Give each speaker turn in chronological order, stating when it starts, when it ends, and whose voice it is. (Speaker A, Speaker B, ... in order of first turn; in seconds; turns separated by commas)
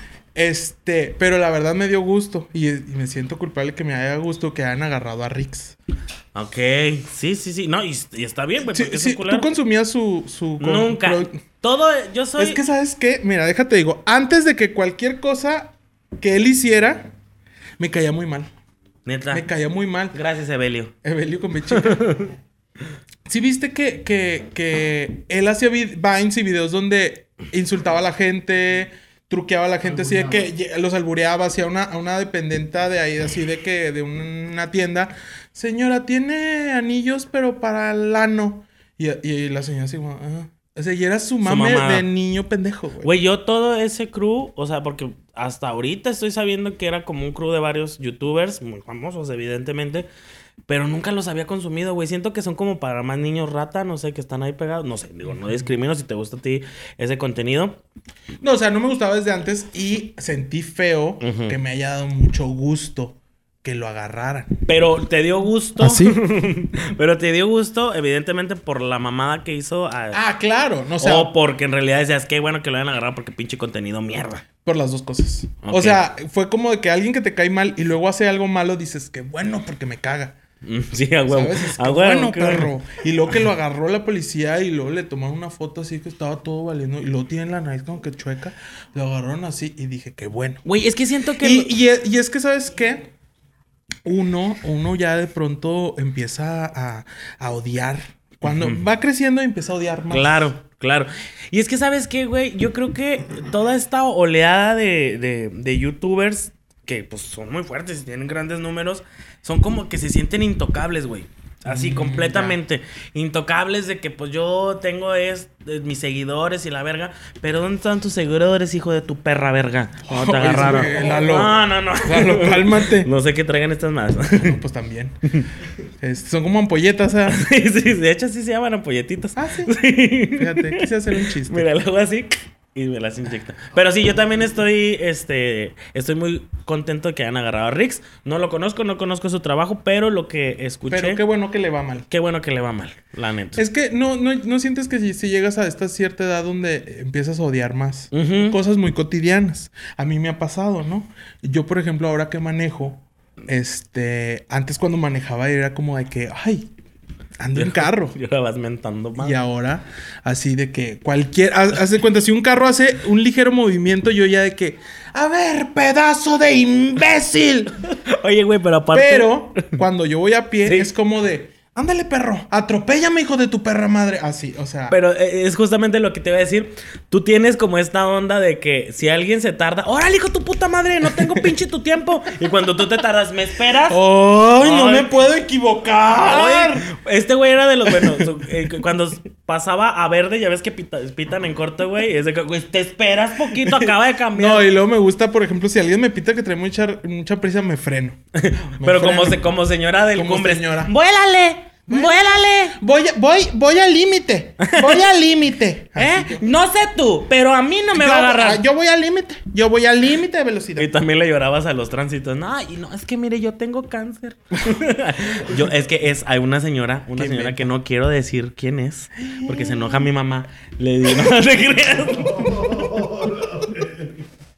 Speaker A: 0.3-5.8, Speaker B: 6.3-9.5, Speaker A: 8.6-11.4, Speaker B: 10.6-12.6, Speaker A: 12.4-17.1, Speaker A: 17.8-18.5, Speaker B: 19.1-19.5, Speaker A: 19.3-20.2, Speaker B: 20.1-20.9, Speaker A: 21.0-22.2, Speaker B: 21.7-22.3, Speaker A: 23.3-43.1, Speaker C: 29.9-30.5, Speaker B: 41.4-42.1, Speaker B: 43.0-50.1, Speaker B: 50.7-57.8, Speaker A: 58.4-64.5, Speaker B: 61.2-61.6, Speaker B: 64.7-70.2, Speaker A: 65.8-66.2, Speaker A: 70.1-71.3, Speaker B: 71.0-74.5, Speaker A: 74.6-80.4, Speaker B: 75.6-76.0, Speaker B: 80.6-82.7, Speaker A: 81.3-90.6, Speaker B: 90.6-91.8, Speaker A: 91.4-93.1, Speaker A: 94.0-100.5, Speaker B: 98.5-98.8, Speaker B: 100.1-124.6, Speaker A: 111.7-112.6, Speaker A: 120.1-123.1, Speaker A: 124.3-125.2, Speaker A: 126.0-127.4, Speaker B: 127.3-141.2, Speaker A: 129.4-129.8, Speaker A: 130.3-131.7, Speaker A: 140.9-142.1, Speaker B: 142.1-143.6, Speaker A: 143.6-156.7, Speaker B: 148.1-148.6, Speaker A: 157.4-158.2, Speaker B: 157.5-159.4, Speaker A: 159.2-167.8, Speaker B: 167.9-169.8, Speaker A: 168.9-175.0, Speaker B: 170.7-170.9, Speaker B: 174.9-184.0, Speaker A: 183.9-186.9, Speaker B: 184.6-185.1, Speaker B: 186.1-194.7, Speaker A: 187.9-188.3, Speaker A: 193.6-198.2, Speaker B: 198.4-202.8, Speaker A: 198.8-199.4, Speaker A: 200.1-200.9, Speaker A: 201.9-206.4, Speaker B: 204.6-205.0, Speaker B: 206.0-208.6, Speaker A: 207.9-210.9, Speaker B: 210.8-222.7, Speaker A: 215.4-215.7, Speaker A: 217.2-217.7, Speaker A: 219.2-220.1, Speaker C: 222.1-224.2, Speaker A: 222.6-222.9